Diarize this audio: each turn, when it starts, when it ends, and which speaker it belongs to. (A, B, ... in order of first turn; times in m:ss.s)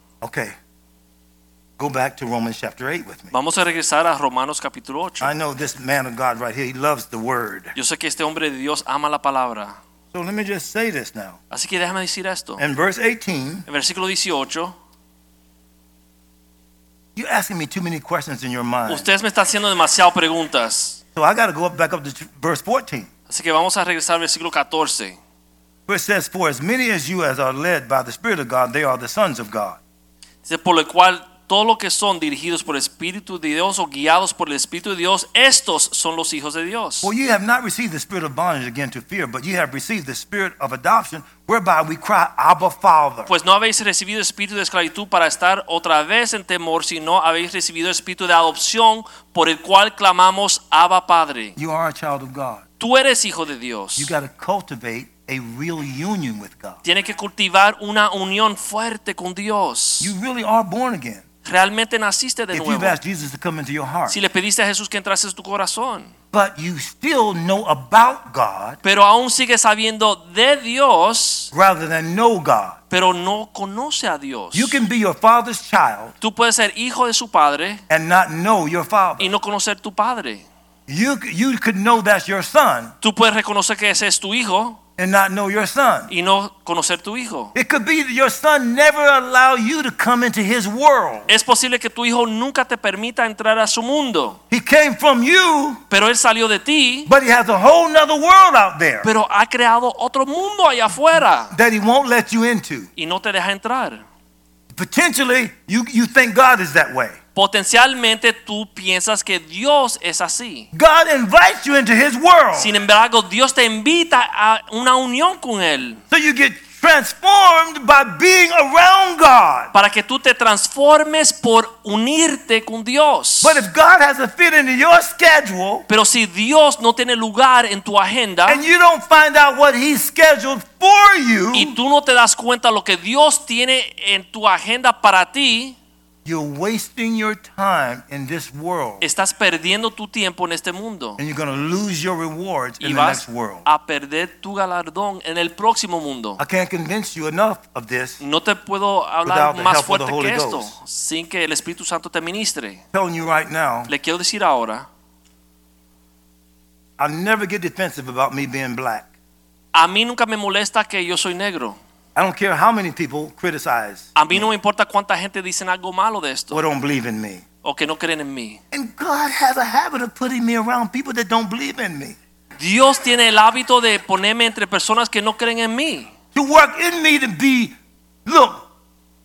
0:00.2-0:00.6 A
0:01.8-0:03.3 A
0:03.3-0:05.3 B
0:05.2-0:07.7 A
0:07.7-0:09.7 B
0:10.1-0:11.4 A
0:11.5-0:12.6 B
0:12.6-0:13.6 A
0:13.7-0:14.7 B
0:17.1-0:19.1 A
0:18.9-0:21.0 B
0:21.1-0:23.1 A
0:23.3-0:25.2 B
0:25.9-0:29.8 A
0:30.4-0:37.1 B
0:37.0-0:43.3 A
0:43.3-0:51.5 B
0:51.6-0:52.6 A
0:52.8-0:54.1 B
0:54.0-0:56.8 A
0:56.8-1:00.1 B
1:00.0-1:01.2 A
1:01.4-1:03.0 B
1:02.5-1:04.2 A
1:04.1-1:06.1 B
1:06.3-1:08.8 A
1:08.8-1:11.5 B
1:11.5-1:12.8 A
1:12.9-1:14.8 B
1:14.5-1:16.1 A
1:16.2-1:17.8 B
1:17.9-1:19.3 A
1:19.2-1:20.4 B
1:20.9-1:22.9 A
1:23.0-1:24.8 B
1:25.0-1:26.1 A
1:26.1-1:27.5 B
1:27.5-1:31.3 A
1:31.3-1:34.4 B
1:34.5-1:35.8 A
1:35.9-1:37.1 B
1:37.0-1:39.1 A
1:39.0-1:41.5 B
1:41.5-1:42.9 A
1:43.0-1:44.0 B
1:44.7-1:47.2 A
1:47.3-1:50.7 B
1:50.7-1:52.7 A
1:52.5-1:56.0 B
1:56.1-1:59.7 A
1:59.7-2:03.6 B
2:03.4-2:05.8 A
2:05.9-2:08.6 B
2:08.5-2:11.7 A
2:11.5-2:15.8 B
2:16.2-2:19.0 A
2:19.0-2:21.2 B
2:21.2-2:23.6 A
2:22.8-2:26.4 B
2:26.4-2:28.2 A
2:28.2-2:32.8 B
2:29.2-2:30.7 A
2:32.9-2:33.9 A
2:33.9-2:34.8 B
2:37.0-2:39.1 A
2:39.7-2:41.8 B
2:42.1-2:44.5 A
2:44.2-2:46.6 B
2:46.5-2:47.4 A
2:47.6-2:48.6 B
2:48.7-2:52.2 A
2:52.6-2:56.1 B
2:56.3-2:57.7 A
2:58.2-2:58.6 A